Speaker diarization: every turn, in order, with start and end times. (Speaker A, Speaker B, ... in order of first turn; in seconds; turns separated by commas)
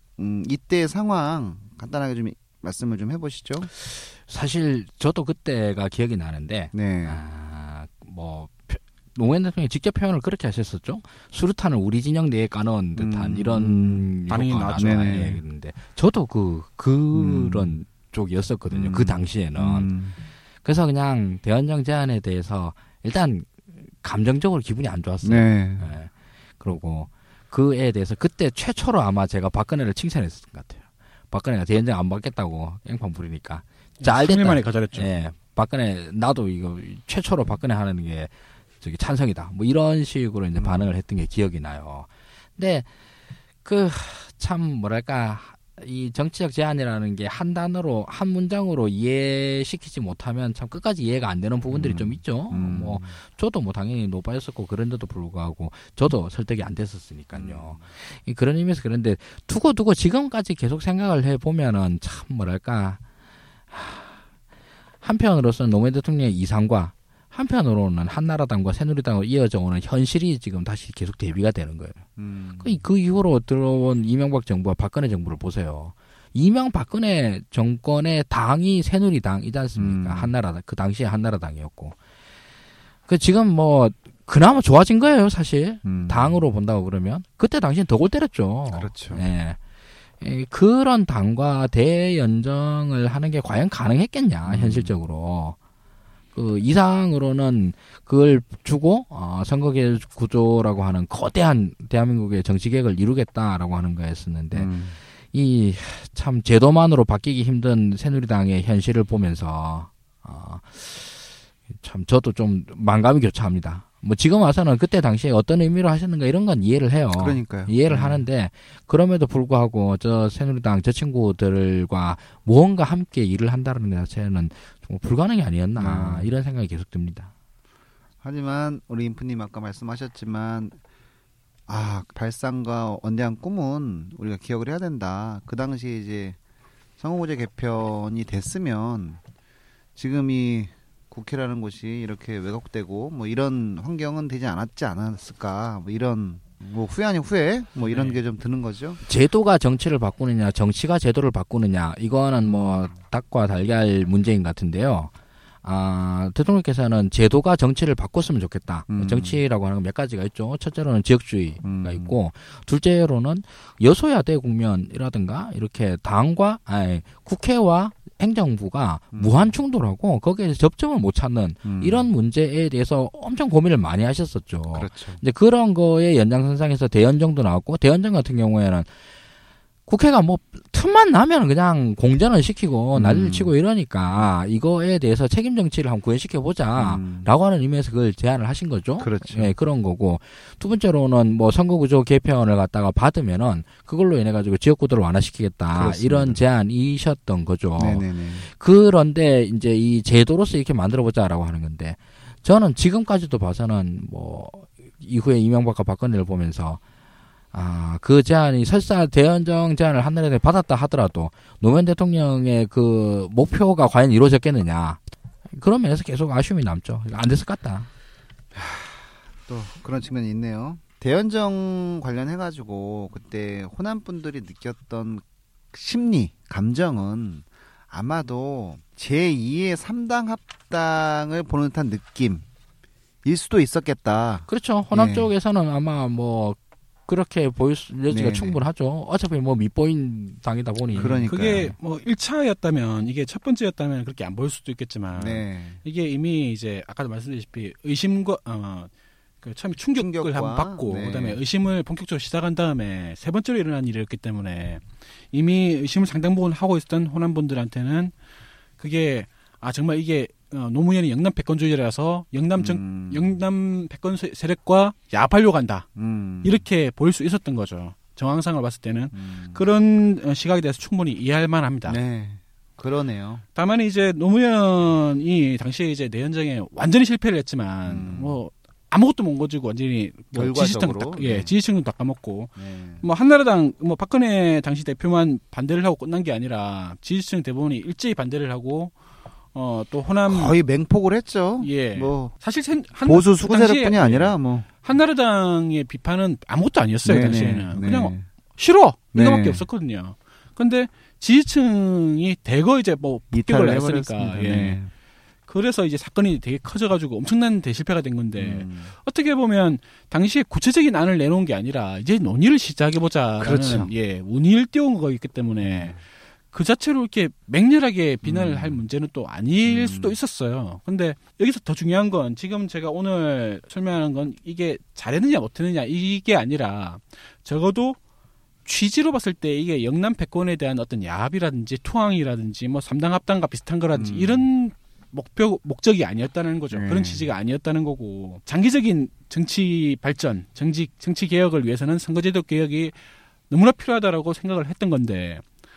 Speaker A: 0.2-3.7, Speaker B: 3.8-19.9, Speaker A: 6.7-7.2, Speaker A: 13.0-14.1, Speaker C: 14.3-15.3, Speaker A: 14.8-15.4, Speaker A: 17.1-17.7, Speaker A: 18.7-20.2, Speaker B: 20.6-42.9, Speaker A: 25.2-25.9, Speaker C: 34.0-35.1, Speaker A: 40.6-40.9, Speaker B: 43.6-63.0, Speaker A: 51.7-53.2, Speaker A: 57.4-57.8, Speaker B: 63.7-64.2, Speaker B: 65.0-72.1, Speaker A: 72.2-72.8, Speaker B: 72.6-82.0, Speaker A: 79.8-80.3, Speaker B: 83.1-89.6, Speaker A: 85.8-86.4, Speaker A: 88.7-89.2, Speaker B: 90.2-95.6, Speaker A: 94.5-94.9, Speaker B: 96.3-104.7, Speaker A: 104.5-105.0, Speaker B: 105.3-127.3, Speaker A: 117.1-118.2, Speaker A: 125.8-126.3, Speaker A: 128.2-130.8, Speaker A: 131.7-136.4, Speaker A: 137.0-139.2, Speaker A: 140.0-149.0, Speaker C: 147.9-148.2, Speaker B: 149.1-155.1, Speaker A: 152.4-152.9, Speaker B: 155.6-178.9, Speaker A: 158.9-159.4, Speaker A: 161.6-162.1, Speaker A: 169.1-169.5, Speaker A: 171.7-172.1, Speaker A: 174.7-175.2, Speaker B: 179.9-206.8, Speaker A: 182.9-183.5, Speaker A: 186.8-187.3, Speaker A: 189.0-189.5, Speaker A: 195.7-196.4, Speaker A: 197.8-198.5, Speaker B: 207.5-215.0, Speaker B: 215.5-217.9, Speaker A: 218.5-232.5, Speaker A: 233.2-235.3, Speaker B: 234.5-241.7, Speaker A: 238.1-238.6, Speaker A: 240.9-241.7, Speaker C: 241.0-248.9, Speaker A: 245.2-245.8, Speaker C: 249.4-258.1, Speaker A: 249.9-251.4, Speaker C: 258.8-265.9, Speaker A: 262.6-263.4, Speaker A: 266.0-266.6, Speaker C: 266.4-272.0, Speaker A: 269.1-269.7, Speaker A: 271.9-273.4, Speaker C: 273.6-288.9, Speaker A: 277.9-278.4, Speaker A: 280.3-281.5, Speaker A: 282.6-283.0, Speaker C: 289.5-290.6, Speaker A: 290.3-292.3, Speaker C: 291.6-304.8, Speaker A: 293.0-294.7, Speaker A: 297.1-298.3, Speaker A: 299.1-299.7, Speaker A: 303.3-304.9, Speaker C: 305.5-316.0, Speaker A: 308.4-308.9, Speaker A: 313.4-313.9, Speaker C: 316.5-328.0, Speaker A: 318.2-318.8, Speaker A: 319.7-320.2, Speaker C: 328.6-343.0, Speaker A: 333.9-334.4, Speaker A: 336.7-337.3, Speaker C: 343.5-345.4